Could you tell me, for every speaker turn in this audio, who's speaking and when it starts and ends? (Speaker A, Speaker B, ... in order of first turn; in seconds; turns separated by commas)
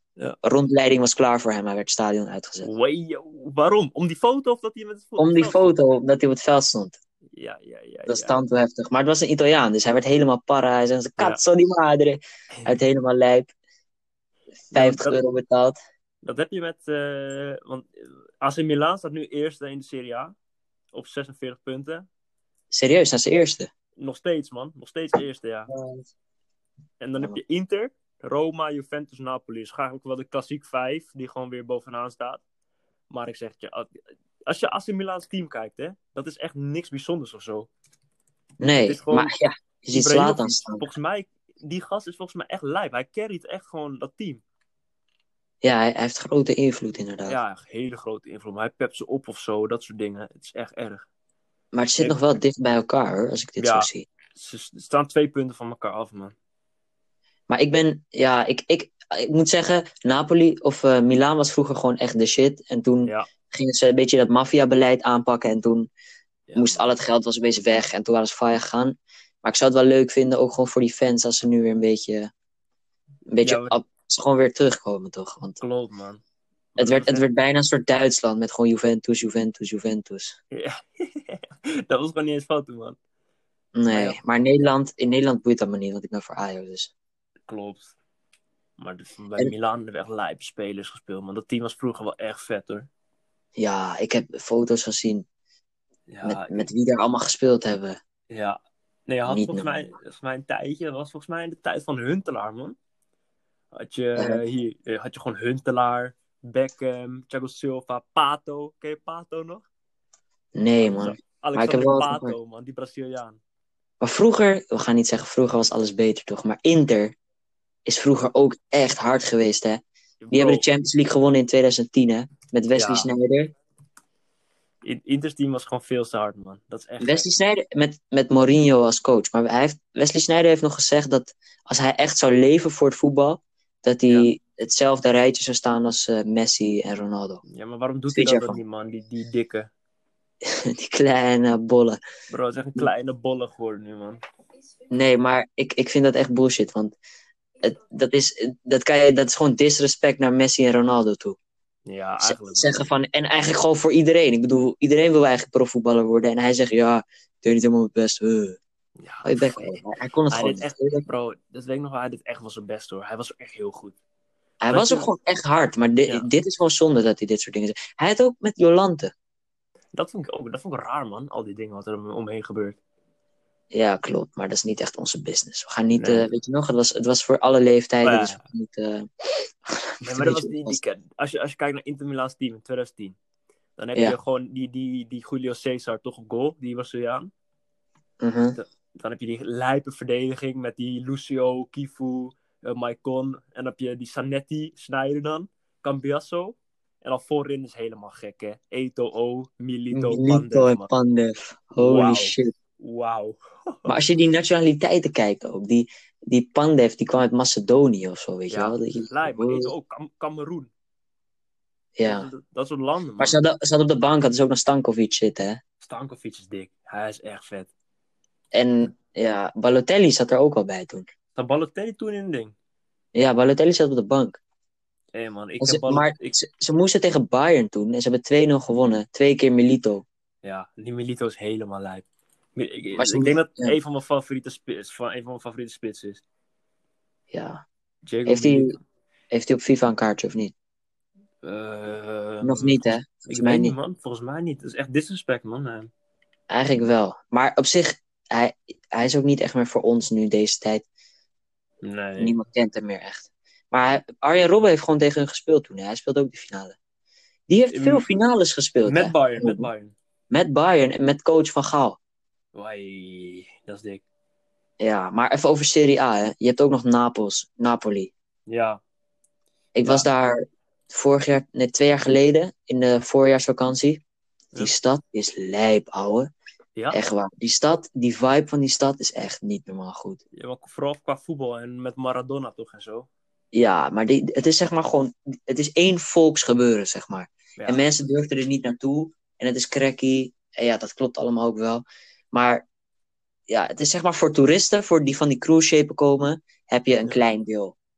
Speaker A: 0.4-2.7, Speaker B: 2.6-5.8, Speaker A: 5.2-7.0, Speaker B: 7.3-8.4, Speaker A: 8.1-13.5, Speaker A: 14.7-15.8, Speaker B: 14.7-15.2, Speaker B: 16.2-20.3, Speaker B: 20.9-22.1, Speaker A: 22.7-23.7, Speaker B: 24.0-25.7, Speaker A: 25.7-26.1, Speaker B: 27.0-32.4, Speaker B: 33.1-33.9, Speaker B: 34.5-37.7, Speaker A: 38.6-40.9, Speaker B: 38.8-39.3, Speaker B: 39.9-44.4, Speaker A: 45.6-47.4, Speaker B: 47.2-51.0, Speaker A: 51.7-54.0, Speaker B: 53.6-56.3, Speaker A: 57.5-65.9, Speaker B: 66.5-66.9, Speaker A: 66.5-72.3, Speaker A: 73.3-75.6, Speaker B: 73.4-73.8, Speaker B: 75.6-76.2, Speaker B: 76.8-77.2, Speaker A: 76.8-80.3, Speaker B: 80.5-83.0, Speaker A: 83.7-86.9, Speaker B: 83.9-84.2, Speaker B: 87.5-87.9, Speaker B: 88.8-92.9, Speaker A: 93.6-95.2, Speaker B: 96.1-96.7, Speaker A: 96.2-98.0, Speaker B: 98.3-102.8, Speaker A: 99.3-99.8, Speaker B: 103.7-109.6, Speaker A: 104.2-104.4, Speaker A: 110.5-112.3, Speaker B: 110.8-113.4, Speaker A: 114.0-117.1, Speaker A: 117.8-123.5, Speaker B: 120.2-120.6, Speaker B: 122.8-123.1, Speaker B: 124.8-127.3, Speaker A: 127.0-137.4, Speaker B: 137.4-139.7, Speaker A: 138.1-138.6, Speaker A: 140.4-142.0, Speaker B: 142.3-144.2, Speaker A: 144.9-146.9, Speaker A: 147.6-151.4, Speaker B: 151.9-152.8, Speaker A: 152.2-158.6, Speaker B: 159.0-164.0, Speaker A: 159.2-161.0, Speaker A: 164.6-169.1, Speaker B: 164.7-165.1, Speaker B: 169.9-172.8, Speaker A: 173.7-179.1, Speaker B: 175.9-176.3, Speaker B: 178.0-178.4, Speaker A: 179.7-180.8, Speaker B: 180.0-183.2, Speaker B: 183.8-187.3, Speaker A: 188.2-188.6, Speaker B: 188.6-200.9, Speaker A: 199.9-202.5, Speaker B: 201.8-203.9, Speaker A: 203.8-209.7, Speaker B: 208.5-210.7, Speaker A: 212.0-212.3, Speaker B: 212.0-213.4, Speaker A: 213.2-215.6, Speaker B: 215.8-217.7, Speaker A: 218.5-221.1, Speaker B: 221.3-222.5, Speaker A: 223.1-224.4, Speaker B: 225.1-226.3, Speaker A: 225.6-230.0, Speaker B: 230.4-236.2, Speaker A: 233.0-233.8, Speaker A: 237.3-237.6, Speaker B: 238.1-238.8, Speaker A: 238.2-238.7, Speaker A: 239.3-240.5, Speaker B: 241.4-245.9, Speaker A: 242.4-243.8, Speaker A: 246.5-250.8, Speaker B: 251.8-252.3, Speaker A: 252.2-256.7, Speaker A: 257.5-259.7, Speaker B: 257.7-258.1, Speaker B: 258.8-259.9, Speaker A: 260.3-262.0, Speaker B: 262.5-264.0, Speaker A: 264.8-268.1, Speaker B: 268.5-268.8, Speaker A: 269.7-270.4, Speaker A: 270.9-274.0, Speaker A: 274.6-276.3, Speaker A: 276.9-280.2, Speaker B: 280.4-283.1, Speaker A: 283.5-292.6, Speaker B: 287.6-287.9, Speaker A: 293.5-297.7